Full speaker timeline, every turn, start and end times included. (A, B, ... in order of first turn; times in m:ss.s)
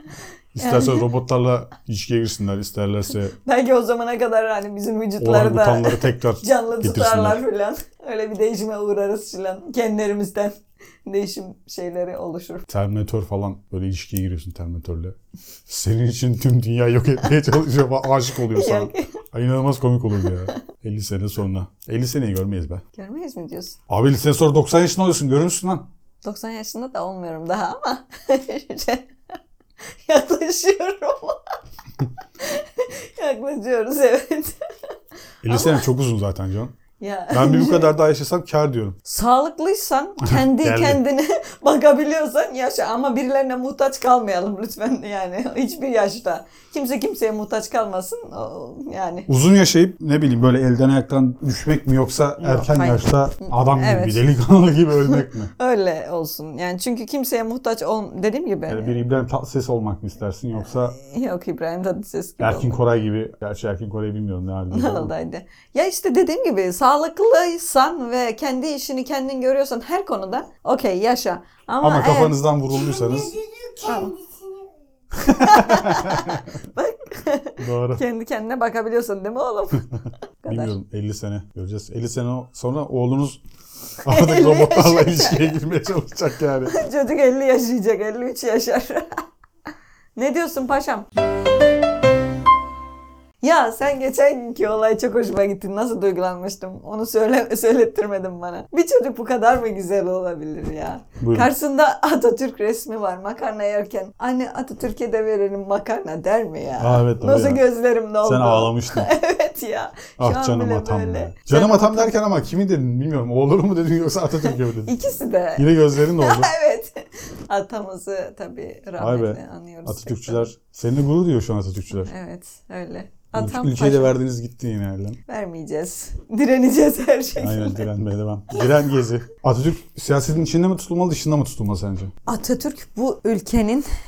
0:00.5-0:03.4 A
0:00.6-0:01.0 B
0:03.4-0:12.7 B
0:05.2-0:07.4 A
0:12.7-0:15.2 A
0:15.7-0:22.8 A
0:18.5-0:19.2 B
0:23.0-0:23.8 B
0:23.9-0:25.9 A
0:26.2-0:29.1 B
0:30.0-0:31.6 B
0:32.4-0:34.6 B
0:35.4-0:36.8 A
0:35.5-0:35.8 B
0:37.0-0:37.9 B
0:37.3-0:39.0 A
0:39.0-0:49.3 B
0:40.2-0:41.0 A
0:49.3-0:55.5 A
0:52.4-0:54.2 B
0:55.1-0:58.9 B
0:58.7-1:01.0 A
1:00.9-1:02.8 B
1:02.4-1:05.1 A
1:04.7-1:12.4 B
1:11.8-1:14.1 A
1:13.8-1:14.2 B
1:15.1-1:16.6 A
1:15.2-1:19.8 B
1:17.6-1:18.0 A
1:20.4-1:20.7 B
1:20.5-1:23.4 A
1:24.0-1:25.6 B
1:24.0-1:26.8 A
1:26.7-1:29.1 B
1:30.2-1:31.1 B
1:33.4-1:52.2 B
1:41.2-1:41.5 A
1:46.8-1:47.6 A
1:48.2-1:49.1 A
1:50.2-1:55.0 A
1:54.5-2:00.5 B
1:55.6-1:56.5 A
1:59.0-2:02.1 A
2:02.0-2:04.1 B
2:03.3-2:05.2 A
2:05.3-2:07.9 B
2:07.4-2:12.1 A
2:12.3-2:13.9 B